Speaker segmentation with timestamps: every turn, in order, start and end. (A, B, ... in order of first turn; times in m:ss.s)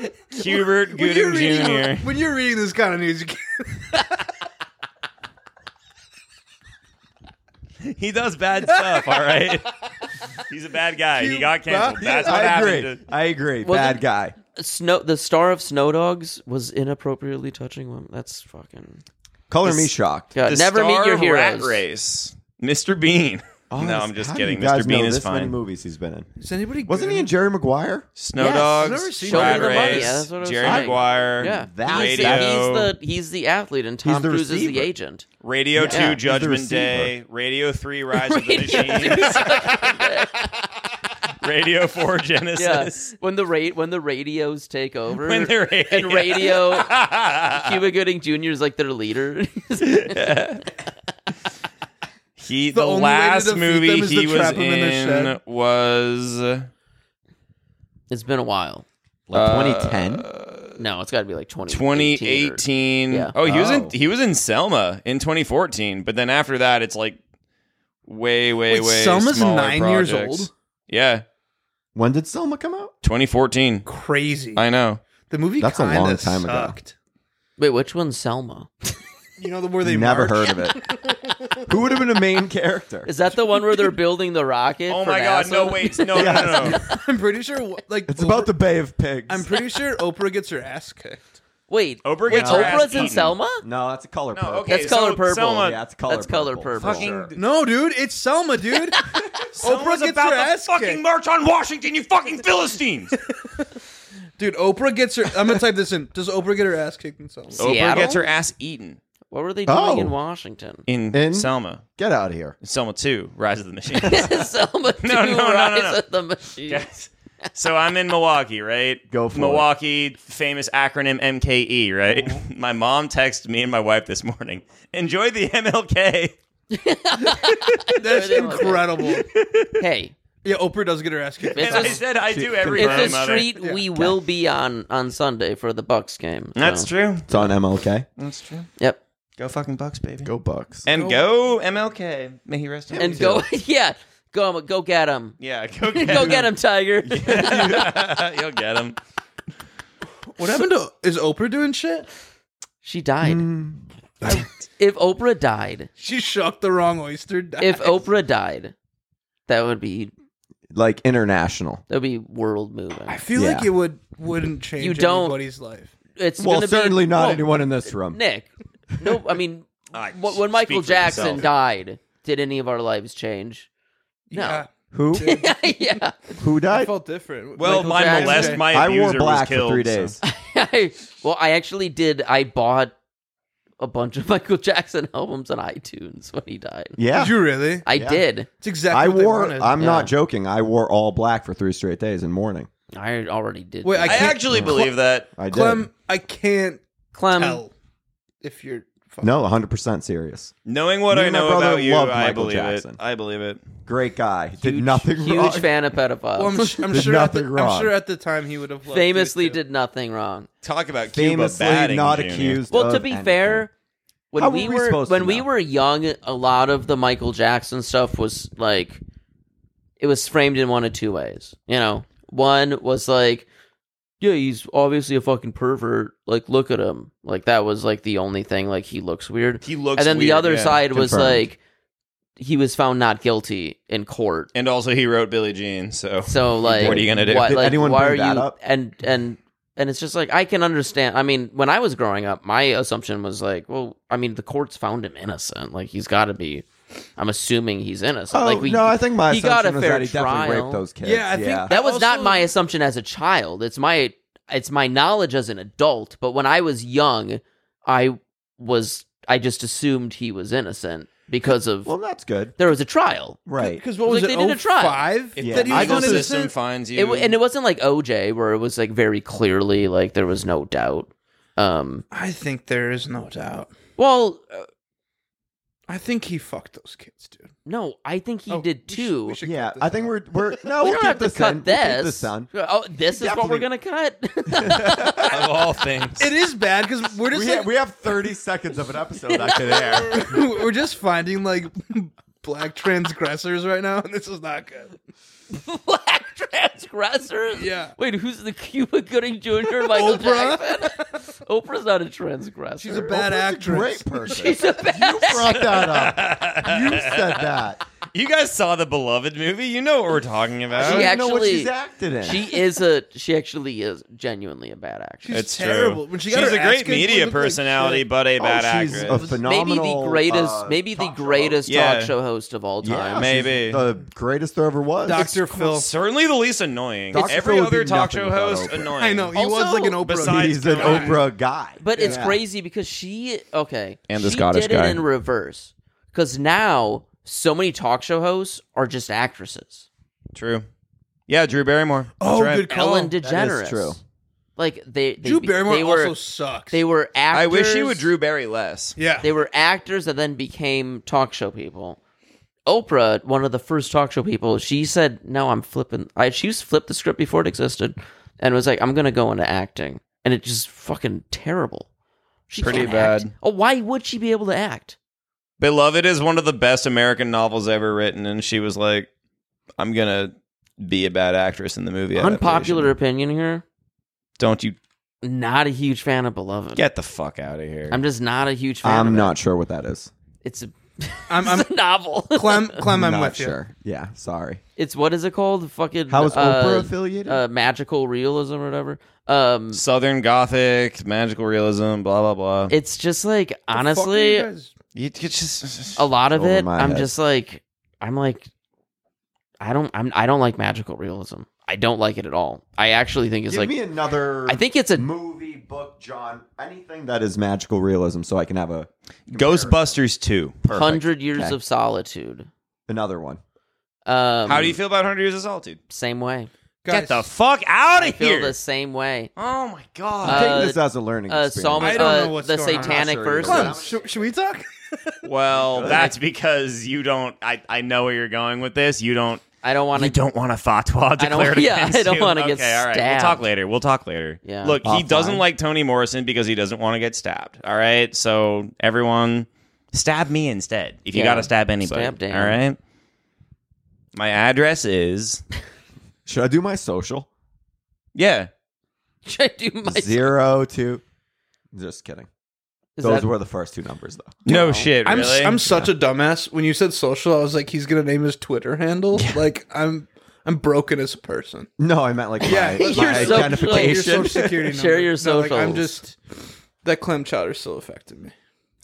0:00.3-0:02.1 A
0:00.4-0:04.1 B
0:07.8-0:09.8 A
0:08.7-0:09.3 B
0:10.4-0:13.0 A
0:11.2-0:12.4 B
0:12.0-0:14.4 C
0:13.6-0:14.0 D
0:14.6-0:19.0 D
0:19.5-0:20.3 C
0:19.6-0:21.8 D
0:20.4-0:25.6 A
0:23.7-0:26.3 C
0:26.4-0:27.3 B
0:26.9-0:28.6 C
0:28.2-0:32.9 A
0:28.4-0:35.3 D
0:28.8-0:30.2 B
0:30.6-0:32.6 C
0:34.0-0:34.9 C
0:35.4-0:40.2 A
0:35.7-0:37.1 C
0:35.9-0:36.2 D
0:38.1-0:40.7 D
0:41.4-0:43.1 A
0:42.6-0:47.0 D
0:45.1-0:47.8 A
0:47.5-0:50.4 D
0:49.8-0:50.6 A
0:52.4-0:56.7 A
0:52.7-0:55.4 B
0:58.1-0:58.9 D
0:59.3-1:00.2 C
0:59.3-1:00.8 A
1:00.8-1:03.3 D
1:01.7-1:07.2 A
1:03.4-1:04.0 C
1:08.1-1:11.2 A
1:08.7-1:10.5 B
1:12.0-1:12.9 C
1:13.0-1:13.9 A
1:13.9-1:14.6 B
1:14.6-1:15.0 A
1:15.3-1:17.0 B
1:15.6-1:16.8 C
1:17.6-1:18.7 D
1:19.4-1:21.7 B
1:19.8-1:20.8 C
1:21.7-1:23.1 C
1:23.0-1:27.0 D
1:23.5-1:23.9 B
1:24.9-1:26.8 A
1:26.1-1:26.8 C
1:26.6-1:28.5 B
1:28.1-1:29.4 C
1:29.3-1:31.3 B
1:31.7-1:33.6 D
1:32.0-1:33.4 A
1:32.3-1:34.9 C
1:34.3-1:35.8 A
1:34.7-1:37.3 D
1:35.5-1:37.3 C
1:36.8-1:37.4 A
1:37.4-1:39.0 B
1:39.0-1:39.2 D
1:39.4-1:43.2 A
1:39.6-1:41.0 B
1:43.3-1:43.7 B
1:44.4-1:47.7 B
1:47.6-1:48.2 D
1:47.6-1:49.0 A
1:49.3-1:50.8 D
1:49.7-1:50.2 C
1:50.9-1:51.8 A
1:51.1-1:52.6 C
1:52.6-1:54.5 A
1:54.0-1:56.9 D
1:55.0-1:56.0 A
1:56.6-2:06.4 A
1:59.1-1:59.7 C
2:02.1-2:02.4 B
2:06.7-2:09.2 D
2:07.9-2:09.3 B
2:09.3-2:09.8 A
2:09.8-2:10.1 D
2:10.4-2:12.0 B
2:11.6-2:13.5 A
2:11.6-2:12.0 D
2:12.3-2:13.2 C
2:12.7-2:16.9 D
2:13.5-2:13.8 B
2:16.6-2:17.5 A
2:17.3-2:18.1 C
2:18.2-2:18.7 A
2:19.4-2:20.3 A
2:20.2-2:20.9 C
2:20.8-2:23.4 A
2:20.9-2:21.2 B
2:23.0-2:23.4 C
2:23.0-2:25.4 D
2:25.4-2:29.0 A
2:25.9-2:27.9 D
2:27.1-2:28.0 C
2:30.4-2:32.1 B
2:32.8-2:33.5 D
2:33.2-2:33.8 C
2:34.2-2:34.5 B
2:34.3-2:35.9 D
2:36.0-2:38.0 B
2:37.6-2:38.7 D
2:39.5-2:40.1 D
2:40.7-2:41.8 C
2:41.9-2:43.2 D
2:43.1-2:45.9 B
2:43.4-2:43.7 C
2:44.8-2:45.4 D
2:46.2-2:53.7 D
2:46.4-2:48.2 C
2:49.9-2:51.5 A
2:54.3-2:55.6 B
2:54.3-2:54.6 D
2:54.9-2:55.4 C
2:55.2-2:56.2 D
2:56.4-2:56.9 C
2:56.7-2:58.6 B
2:57.6-3:00.2 A
2:57.6-2:58.7 D
2:58.7-3:00.2 C
3:00.2-3:03.0 D
3:03.8-3:07.0 D
3:07.0-3:08.2 C
3:07.1-3:07.9 B
3:07.9-3:08.5 D
3:08.6-3:09.8 B
3:08.9-3:12.7 C
3:09.8-3:10.1 D
3:12.9-3:14.4 D
3:13.8-3:15.0 B
3:14.1-3:15.3 A
3:14.5-3:14.8 C
3:15.4-3:15.9 C
3:15.5-3:17.7 B
3:17.1-3:17.6 D
3:18.4-3:19.4 B
3:19.2-3:20.5 C
3:20.7-3:23.6 A
3:21.1-3:23.0 C
3:23.8-3:25.7 C
3:24.6-3:26.9 D
3:26.4-3:29.6 B
3:26.9-3:27.9 C
3:28.9-3:30.5 D
3:30.6-3:32.7 A
3:31.1-3:33.7 C
3:32.7-3:33.7 D
3:34.3-3:39.0 D
3:34.4-3:35.5 C
3:40.0-3:43.5 D
3:44.2-3:51.6 D
3:49.6-3:50.8 A
3:50.9-3:51.5 C
3:52.4-3:54.5 D
3:54.5-3:57.6 A
3:56.3-4:10.8 D
3:56.6-3:58.6 C
4:08.3-4:11.7 C
4:11.0-4:12.5 B
4:11.7-4:21.9 D
4:21.8-4:22.6 C
4:22.6-4:23.4 D
4:23.5-4:23.8 C
4:23.6-4:26.5 B
4:24.0-4:25.1 D
4:25.4-4:27.4 A
4:25.4-4:26.3 C
4:27.0-4:32.0 D
4:32.1-4:33.7 B
4:34.0-4:34.7 D
4:35.9-4:37.5 B
4:37.6-4:39.4 D
4:38.5-4:40.1 B
4:39.4-4:42.5 C
4:40.7-4:45.3 D
4:43.1-4:43.7 C
4:44.5-4:45.5 C
4:45.2-4:46.3 A
4:46.2-4:47.7 B
4:47.3-4:50.4 C
4:49.3-4:50.4 D
4:49.9-4:55.0 B
4:55.5-5:03.2 D
4:57.5-4:58.0 B
4:59.7-5:01.1 B
5:02.8-5:07.8 C
5:02.8-5:04.5 B
5:04.3-5:05.9 D
5:05.7-5:07.5 A
5:08.1-5:11.1 A
5:10.7-5:12.6 C
5:10.8-5:15.3 D
5:15.2-5:18.1 B
5:15.3-5:19.2 A
5:18.4-5:21.1 C
5:19.0-5:19.4 B
5:19.4-5:23.3 D
5:21.0-5:21.6 B
5:21.7-5:22.1 A
5:22.8-5:25.5 C
5:23.2-5:23.8 A
5:25.1-5:25.9 B
5:25.5-5:29.4 A
5:27.1-5:28.9 C
5:29.0-5:31.2 B
5:29.3-5:30.0 D
5:30.0-5:31.2 A
5:30.2-5:32.4 C
5:31.8-5:39.9 D
5:31.9-5:32.3 B
5:34.1-5:35.0 C
5:40.3-5:40.7 A
5:41.3-5:42.7 A
5:42.2-5:43.2 B
5:42.7-5:44.0 D
5:43.2-5:44.0 C
5:44.6-5:46.2 D
5:45.2-5:46.8 B
5:46.7-5:48.1 D
5:47.3-5:49.0 A
5:49.0-5:49.3 B
5:49.2-5:52.0 D
5:52.7-6:01.9 D
6:02.5-6:05.0 D
6:02.6-6:03.3 A
6:05.6-6:09.1 A
6:09.8-6:12.9 A
6:12.1-6:13.6 D
6:14.4-6:14.8 A
6:15.2-6:16.8 D
6:16.8-6:18.0 A
6:17.9-6:19.3 D
6:18.8-6:20.1 C
6:20.4-6:22.8 D
6:21.3-6:21.7 B
6:22.3-6:23.6 B
6:22.9-6:24.6 C
6:24.8-6:29.8 D
6:26.1-6:27.4 C
6:29.7-6:32.7 A
6:32.7-6:34.5 D
6:33.7-6:34.7 B
6:35.0-6:36.1 A
6:36.0-6:38.5 D
6:36.3-6:37.1 C
6:39.6-6:43.8 D
6:43.5-6:50.0 C
6:44.5-6:45.1 D
6:49.3-6:50.6 A
6:50.6-6:51.6 C
6:50.7-6:52.5 D
6:52.9-6:53.4 C
6:54.1-6:54.8 D
6:54.4-6:55.8 A
6:55.9-6:56.5 D
6:56.8-6:57.3 B
6:56.9-6:58.6 A
6:58.0-6:59.3 D
6:59.4-7:00.6 A
7:00.2-7:04.2 C
7:00.2-7:03.8 D
7:01.8-7:05.3 B
7:05.2-7:22.8 A
7:05.5-7:06.1 C
7:05.8-7:06.2 D
7:09.6-7:10.2 D
7:11.2-7:13.5 D
7:14.4-7:14.8 D
7:14.8-7:15.4 C
7:21.1-7:22.6 D
7:24.1-7:25.4 A
7:26.3-7:27.3 C
7:28.2-7:28.5 A
7:29.2-7:30.3 D
7:29.8-7:31.0 C
7:31.7-7:32.3 C
7:33.0-7:33.3 D
7:33.0-7:34.4 C
7:34.5-7:34.9 D
7:34.5-7:35.6 A
7:35.0-7:41.7 B
7:41.8-7:44.5 C
7:42.4-7:46.2 B
7:42.6-7:46.0 D
7:46.8-7:48.3 B